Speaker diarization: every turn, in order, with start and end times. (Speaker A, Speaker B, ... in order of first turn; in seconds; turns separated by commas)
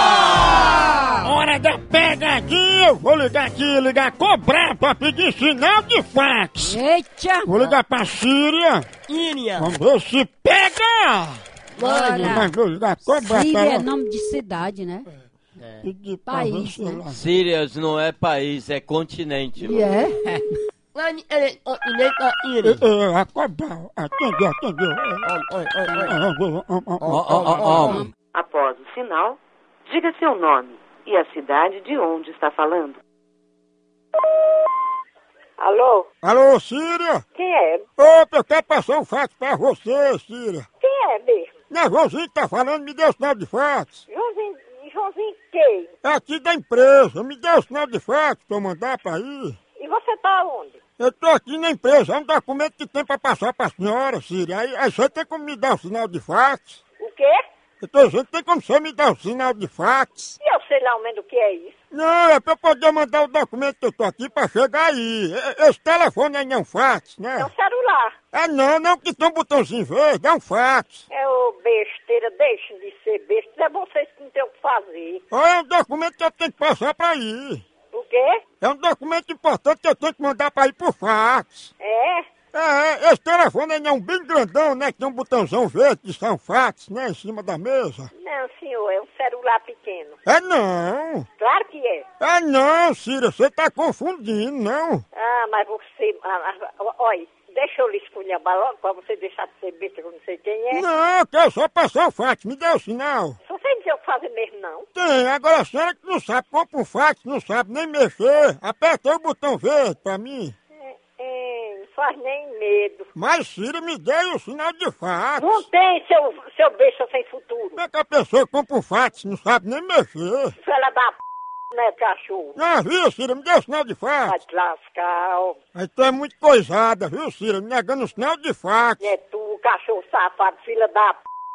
Speaker A: 0.2-0.6, Speaker B: 0.9-1.2, Speaker A: 1.2-6.8, Speaker B: 6.6-7.7, Speaker A: 7.4-8.9, Speaker C: 9.1-9.8, Speaker A: 9.6-11.4, Speaker C: 11.8-12.5, Speaker B: 11.8-12.5, Speaker A: 12.2-13.9, Speaker B: 13.0-15.1, Speaker A: 15.8-17.2, Speaker B: 16.2-17.0, Speaker D: 17.1-19.9, Speaker B: 19.6-20.4, Speaker C: 20.9-22.8, Speaker A: 22.6-25.3, Speaker C: 25.2-26.1, Speaker A: 26.0-27.8, Speaker C: 27.0-28.0, Speaker D: 27.1-28.1, Speaker B: 27.8-28.1, Speaker E: 28.3-33.0, Speaker F: 35.6-36.1, Speaker A: 36.2-37.2, Speaker F: 37.3-37.8, Speaker A: 38.0-40.7, Speaker F: 40.8-41.5, Speaker A: 41.7-44.0, Speaker F: 44.1-45.9, Speaker A: 46.0-49.6, Speaker F: 49.8-50.8, Speaker A: 51.0-56.8, Speaker F: 57.0-57.4, Speaker A: 57.8-60.4, Speaker F: 60.4-61.7, Speaker A: 61.9-67.5, Speaker F: 67.4-68.1, Speaker A: 68.3-71.0, Speaker F: 71.1-75.2, Speaker A: 75.3-77.6, Speaker F: 77.9-78.4, Speaker A: 78.6-81.7, Speaker F: 81.8-82.3, Speaker A: 82.5-88.1, Speaker F: 88.2-90.2, Speaker A: 90.2-91.3, Speaker F: 91.4-92.0, Speaker A: 92.2-95.0, Speaker F: 95.1-100.8, Speaker A: 100.7-103.4, Speaker F: 103.5-104.8, Speaker A: 104.9-110.5, Speaker F: 110.8-113.1, Speaker A: 113.2-115.6, Speaker F: 115.4-117.8, Speaker A: 117.8-120.5, Speaker F: 120.6-121.2, Speaker F: 121.7-122.5, Speaker A: 122.5-124.4, Speaker F: 124.3-125.6, Speaker A: 125.7-129.1, Speaker F: 129.0-131.2